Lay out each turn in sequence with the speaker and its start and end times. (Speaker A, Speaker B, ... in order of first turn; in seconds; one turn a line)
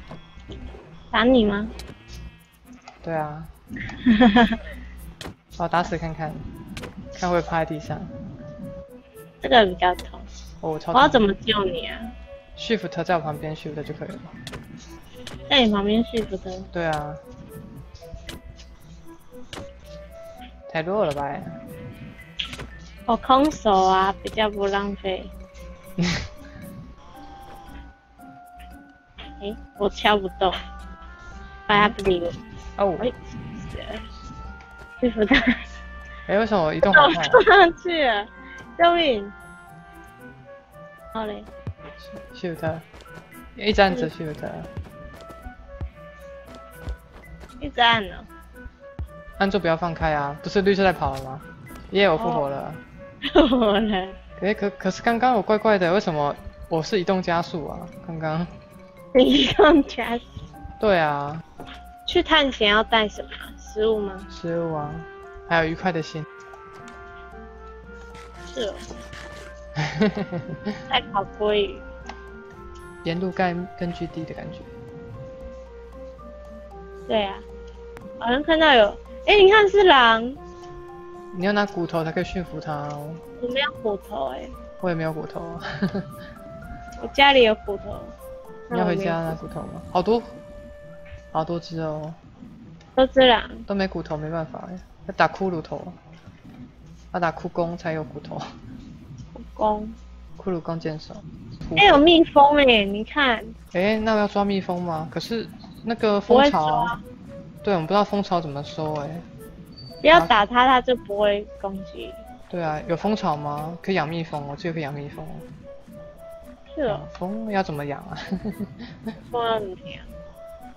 Speaker A: 1.1-1.7
Speaker B: 3.0-3.5
Speaker A: 4.1-4.6
Speaker B: 5.6-6.5
Speaker B: 7.2-8.1
Speaker A: 9.4-10.3
Speaker B: 10.6-11.2
Speaker A: 10.9-12.1
Speaker B: 12.6-14.3
Speaker A: 15.5-16.7
Speaker B: 16.7-17.2
Speaker B: 20.7-21.6
Speaker A: 23.1-25.3
Speaker A: 29.4-30.6
Speaker A: 31.7-32.4
Speaker B: 32.8-33.1
Speaker A: 33.0-34.0
Speaker A: 35.0-35.6
Speaker B: 36.3-37.4
Speaker A: 36.9-39.4
Speaker A: 41.1-41.5
Speaker B: 42.0-42.9
Speaker B: 43.6-44.7
Speaker A: 47.6-48.3
Speaker B: 49.4-52.8
Speaker A: 52.2-52.5
Speaker A: 53.3-54.2
Speaker B: 54.4-58.5
Speaker A: 59.1-60.3
Speaker B: 60.8-61.4
Speaker A: 62.1-64.3
Speaker B: 64.3-66.3
Speaker A: 68.5-68.9
Speaker B: 69.9-70.4
Speaker A: 70.9-71.8
Speaker B: 73.0-74.7
Speaker A: 77.1-77.5
Speaker A: 78.2-80.4
Speaker B: 81.3-83.2
Speaker A: 83.4-84.5
Speaker B: 84.8-86.1
Speaker A: 87.0-88.1
Speaker A: 88.7-89.4
Speaker B: 88.7-90.3
Speaker B: 91.3-92.2
Speaker A: 93.0-93.7
Speaker B: 93.7-96.0
Speaker B: 97.1-98.4
Speaker A: 99.3-100.0
Speaker B: 100.4-102.0
Speaker A: 101.8-103.5
Speaker B: 103.7-107.0
Speaker A: 106.3-107.0
Speaker B: 107.6-109.2
Speaker A: 110.0-112.2
Speaker B: 110.1-110.4
Speaker B: 112.5-115.5
Speaker A: 116.7-117.1
Speaker B: 116.9-118.7
Speaker A: 119.3-120.1